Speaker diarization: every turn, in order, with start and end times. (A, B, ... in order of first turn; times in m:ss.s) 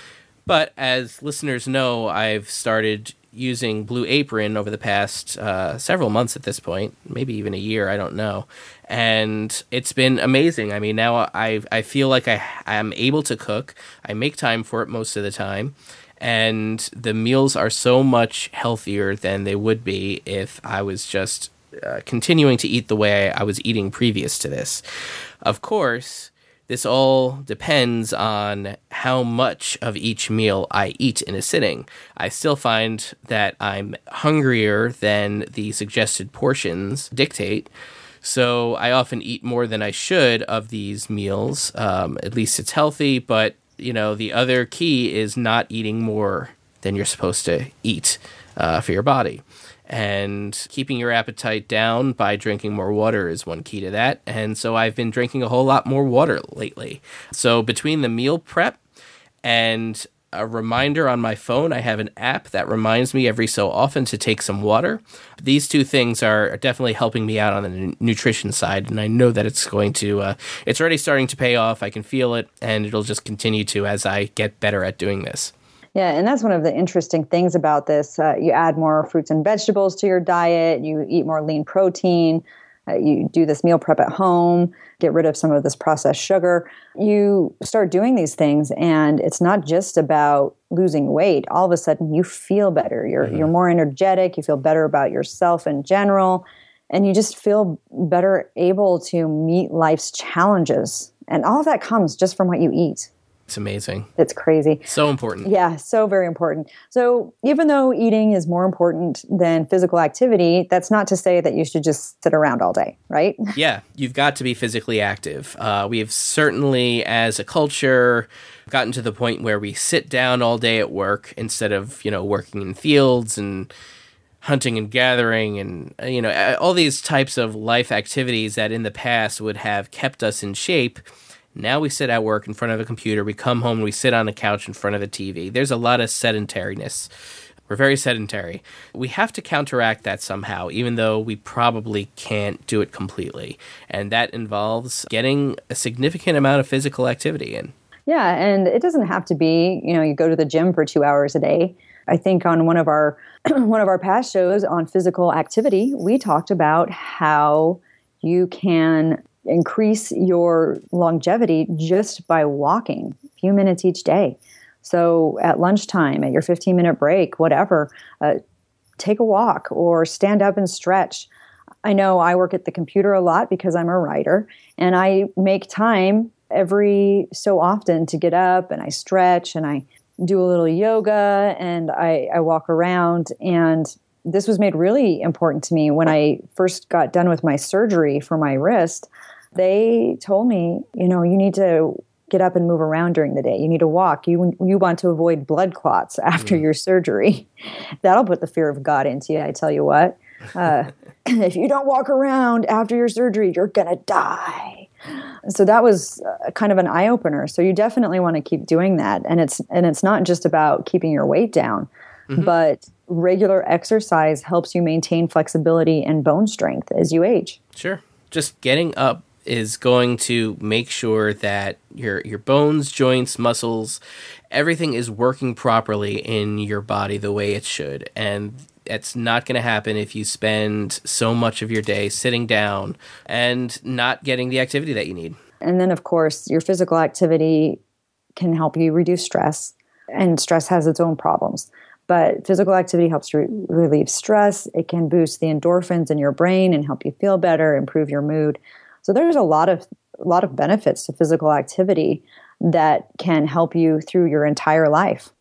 0:00.4-0:24.8 A
0:25.4-0:37.7 A
0:38.2-0:58.8 A
0:59.4-1:15.5 A
1:15.9-1:43.1 B
1:43.5-1:44.1 A
1:44.2-1:44.8 B
1:44.9-1:45.5 A
1:45.4-1:53.5 B
1:53.5-2:03.7 A
2:04.4-2:11.0 A
2:11.5-2:17.1 A
2:17.7-2:27.7 A
2:28.1-2:48.4 B
2:49.0-2:51.3 B
2:51.8-3:17.5 B
3:18.0-3:24.9 B
3:25.4-3:37.6 B
3:37.8-3:44.0 A
3:44.5-3:55.4 A
3:55.6-3:57.8 B
3:58.4-4:15.3 B